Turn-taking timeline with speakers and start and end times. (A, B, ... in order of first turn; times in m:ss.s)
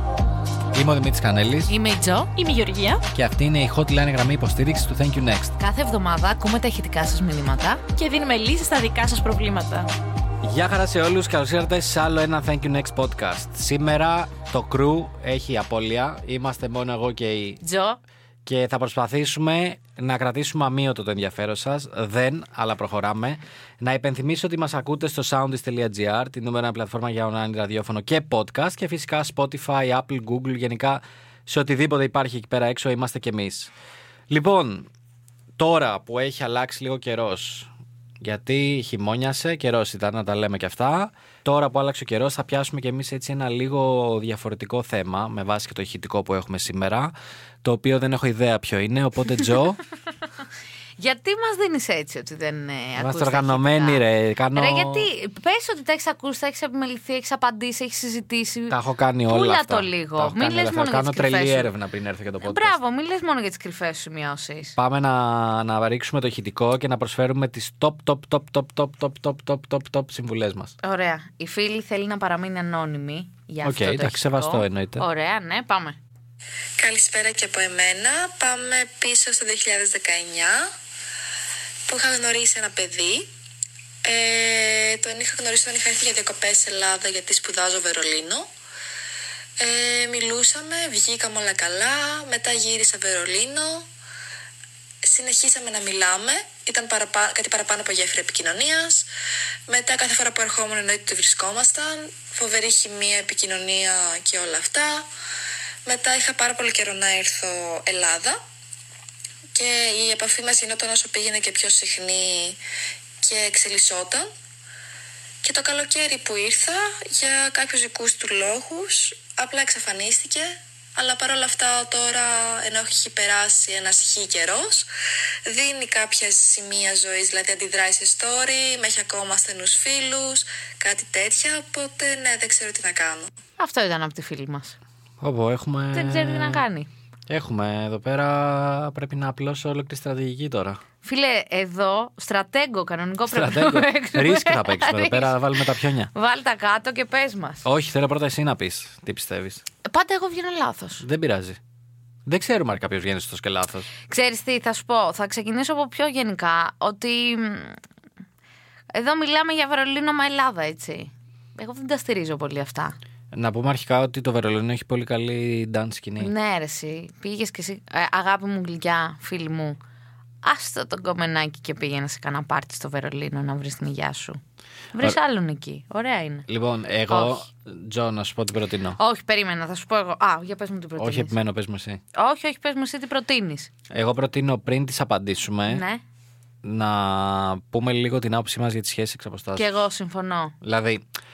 0:00.7-0:01.7 A
0:01.7-0:02.3 B
0:02.3-0:03.0 C
0:03.1-0:05.5 A
0:05.6-0:07.8 B
0:07.9-0:09.9 C
0:10.4-0:17.6 A
0:17.6-0:18.0 B
0:18.4-0:33.7 A
0:34.3-0:34.9 A
0:35.6-0:37.7 A
0:38.2-0:49.8 A
0:51.0-0:54.0 B
0:53.0-0:55.1 A
0:54.5-1:01.7 B
0:58.7-1:02.8 A
1:02.4-1:04.7 B
1:04.8-1:10.7 A
1:10.8-1:16.0 B
1:13.6-1:15.0 A
1:16.8-1:20.7 D
1:21.9-1:23.3 D
1:24.0-1:28.5 D
1:29.6-1:33.9 D
1:35.0-1:39.1 D
1:39.7-1:45.1 D
1:45.8-1:48.4 D
1:49.5-1:52.6 D
1:53.2-1:54.3 D
1:55.4-2:04.9 D
2:05.5-2:13.3 D
2:13.6-2:14.8 B
2:15.2-2:16.6 A
2:15.9-2:16.9 B
2:17.3-2:20.8 A
2:21.0-2:27.6 B
2:23.3-2:26.1 A
2:27.6-2:29.6 A
2:29.8-2:31.0 B
2:31.0-2:31.6 A
2:32.2-2:33.9 A
2:34.1-2:37.8 B
2:38.9-2:43.0 B
2:43.3-2:46.3 A
2:46.2-2:49.8 B
2:50.4-2:54.4 B
2:54.9-2:56.4 B
2:56.5-2:59.0 A
2:57.1-2:57.4 B
2:59.0-3:01.3 B
3:01.0-3:02.0 A
3:02.1-3:03.7 B
3:03.9-3:05.8 A
3:05.7-3:06.0 B
3:06.6-3:09.7 A
3:09.5-3:10.5 B
3:10.6-3:11.0 A